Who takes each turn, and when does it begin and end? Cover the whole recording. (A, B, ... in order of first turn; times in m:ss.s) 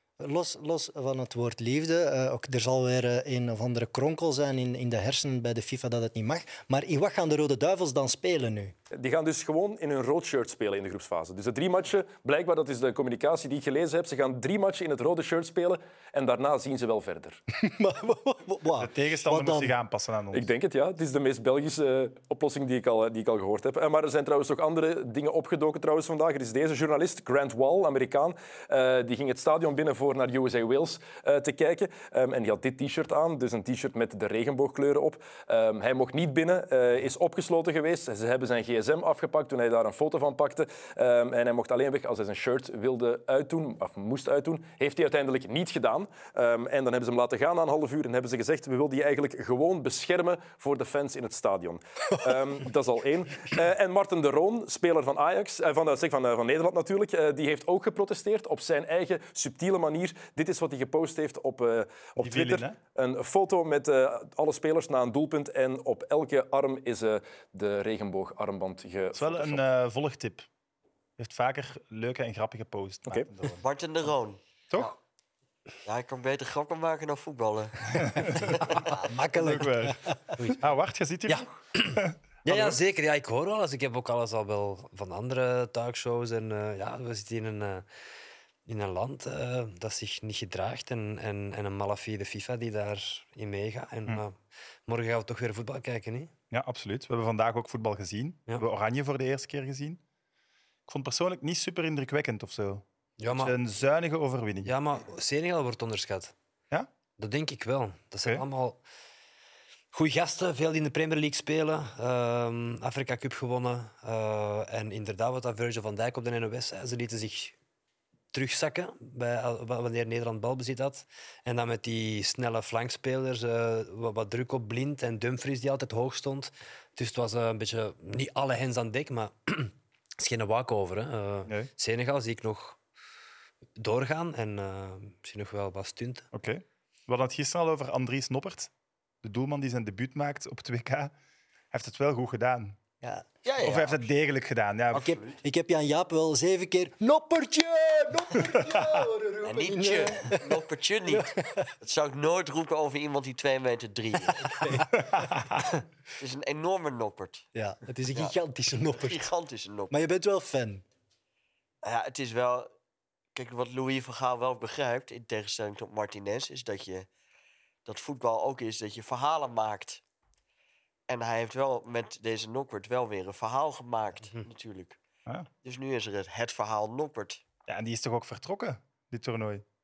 0:00.2-0:08.8 A
0:08.9-0:17.4 B
0:17.6-0:19.8 A
0:18.8-0:20.5 C
0:20.3-1:09.6 B
1:02.2-1:02.8 C
1:09.2-1:10.5 C
1:11.2-1:13.6 C
1:13.6-1:14.9 D
1:14.7-1:15.0 C
1:15.8-1:18.6 D
1:17.9-1:18.7 C
1:18.7-1:20.5 A
1:19.3-1:20.0 C
1:20.6-1:22.8 C
1:21.3-1:27.9 E
1:28.7-1:36.3 E
1:36.5-1:40.0 C
1:40.9-1:44.7 C
1:43.2-1:43.6 E
1:44.6-1:46.3 E
1:47.2-1:48.8 E
1:49.9-1:57.6 E
1:58.3-2:12.8 E
2:13.8-2:16.2 E
2:16.3-2:18.7 C
2:19.2-2:21.1 C
2:21.7-2:22.8 C
2:23.0-2:23.3 A
2:23.4-2:24.0 D
2:23.6-2:25.1 C
2:24.9-2:25.4 D
2:25.1-2:31.7 A
2:29.4-2:34.6 D
2:34.4-2:34.9 A
2:35.0-2:35.6 C
2:36.2-2:37.5 D
2:37.6-2:39.3 A
2:39.0-2:39.9 D
2:39.9-2:40.8 A
2:41.8-2:42.7 D
2:43.4-2:47.1 D
2:47.8-2:50.0 D
2:51.1-2:55.0 D
2:55.6-2:57.4 D
2:57.7-2:59.6 C